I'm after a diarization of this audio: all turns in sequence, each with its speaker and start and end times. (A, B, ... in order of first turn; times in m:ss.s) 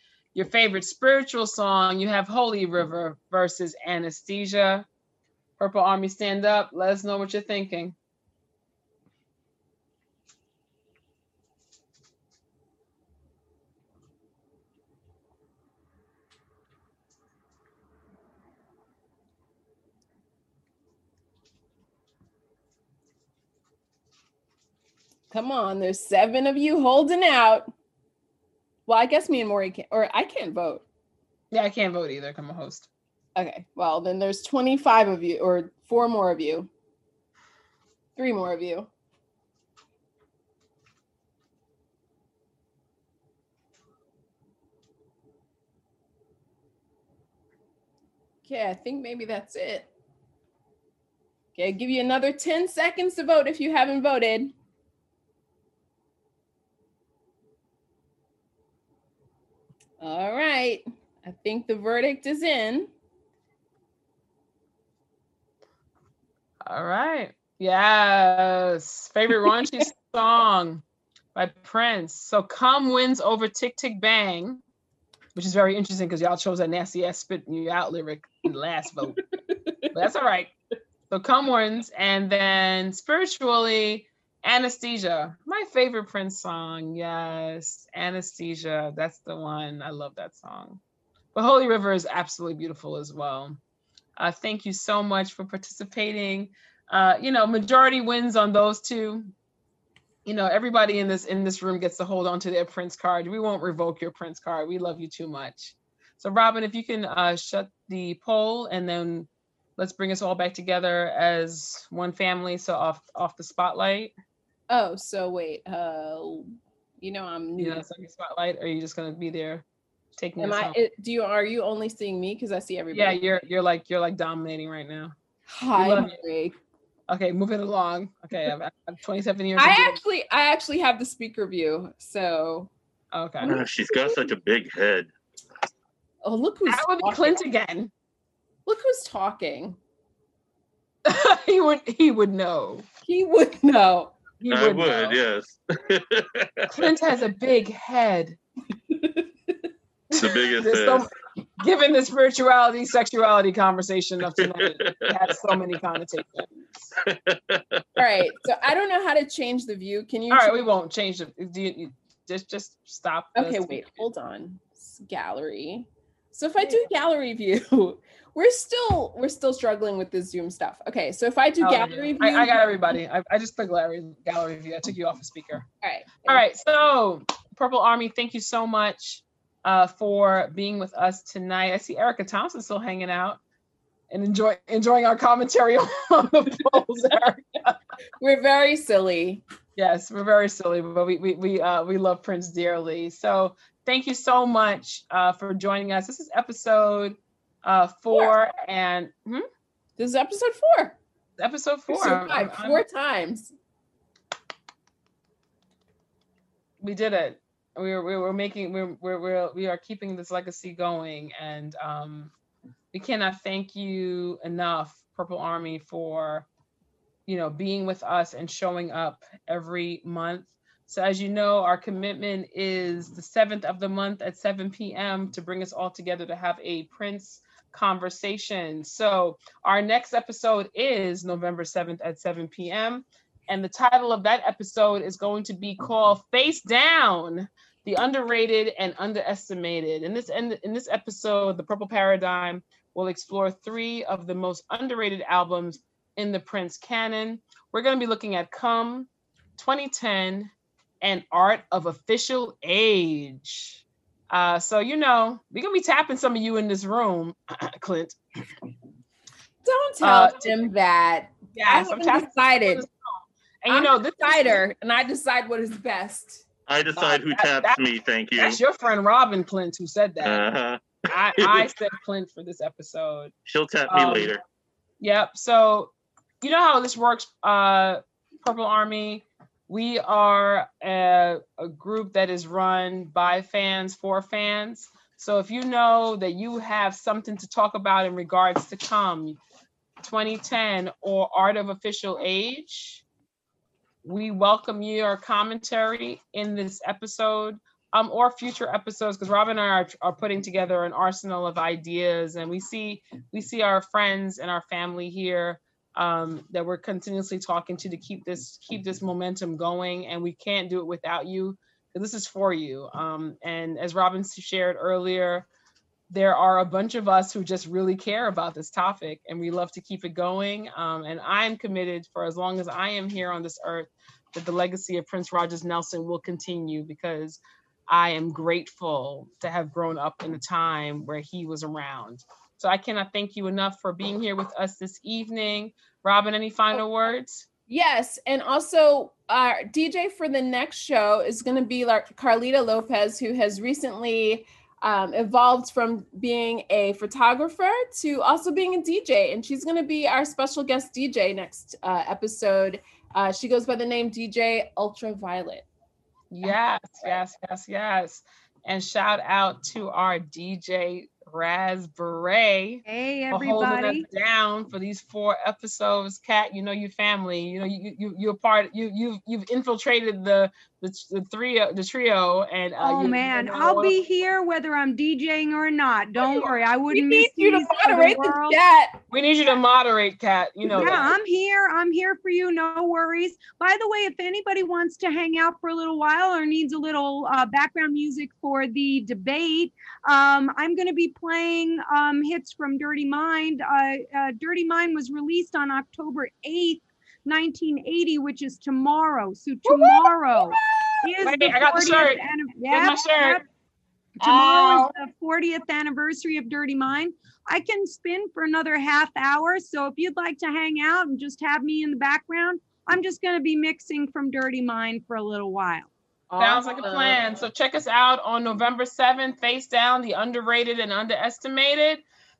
0:00.3-0:04.9 A
0:05.6-0:08.0 A
0:25.3-0:27.7 B
0:28.9-0:30.8 B
0:31.5-0:32.9 A
0:33.4-0:36.7 B
0:38.2-0:38.9 B
0:48.4-0:49.9 B
0:51.5-0:54.5 B
1:00.0-1:02.9 B
1:06.6-1:10.8 A
1:09.4-1:09.8 B
1:11.3-1:14.6 A
1:15.3-1:19.2 A
1:19.5-1:19.8 B
1:19.9-1:20.5 A
1:21.1-1:30.8 A
1:31.3-1:33.6 A
1:34.2-1:39.3 A
1:40.2-1:54.1 A
1:54.7-1:57.8 B
1:57.6-1:59.6 A
2:00.2-2:00.8 A
2:00.4-2:03.2 B
2:02.9-2:05.1 A
2:05.5-2:06.5 B
2:05.8-2:06.2 A
2:07.1-2:10.0 A
2:09.6-2:12.7 B
2:13.1-2:13.5 A
2:13.4-2:14.3 B
2:13.4-2:15.1 C
2:16.2-2:17.4 B
2:16.7-2:17.9 A
2:18.6-2:19.8 B
2:21.0-2:22.8 A
2:23.0-2:24.4 B
2:24.4-2:25.2 A
2:24.5-2:26.9 C
2:26.7-2:28.4 A
2:28.9-2:29.5 B
2:30.1-2:36.9 A
2:30.1-2:31.1 C
2:34.4-2:35.2 C
2:37.1-2:37.6 C
2:38.0-2:40.6 B
2:40.3-2:44.1 A
2:43.3-2:52.7 B
2:46.6-2:46.9 A
2:51.6-2:55.6 A
2:55.8-2:56.4 B
2:56.2-3:03.4 A
3:04.1-3:07.8 A
3:08.2-3:09.4 B
3:09.8-3:19.4 A
3:20.0-3:21.0 B
3:21.4-3:22.8 A
3:21.9-3:23.5 B
3:26.8-3:32.3 A
3:32.9-3:36.5 A
3:37.3-4:18.2 A
4:19.6-4:22.9 B
4:20.0-4:20.7 A
4:21.5-4:22.9 A
4:23.6-4:24.6 A
4:23.7-4:26.4 B
4:26.7-4:28.6 C
4:26.9-4:27.8 A
4:28.3-4:30.4 A
4:30.2-4:30.8 C
4:31.1-4:33.3 A
4:31.4-4:31.7 C
4:33.5-4:34.4 C
4:33.9-4:34.3 A
4:35.0-4:35.9 A
4:36.4-4:49.4 A
4:50.0-4:53.0 A
4:54.0-5:15.5 A
5:16.1-5:37.4 A
5:37.7-5:55.6 B
5:56.3-6:13.9 A
5:56.4-5:57.2 B
6:02.8-6:04.0 D
6:12.8-6:18.6 D
6:16.2-6:19.0 B
6:19.1-6:21.1 A
6:20.7-6:43.4 D
6:39.6-6:40.4 A
6:41.2-6:43.4 A
6:44.2-6:44.9 A
6:44.2-6:55.9 D
6:56.3-6:57.2 B
6:56.4-7:02.0 A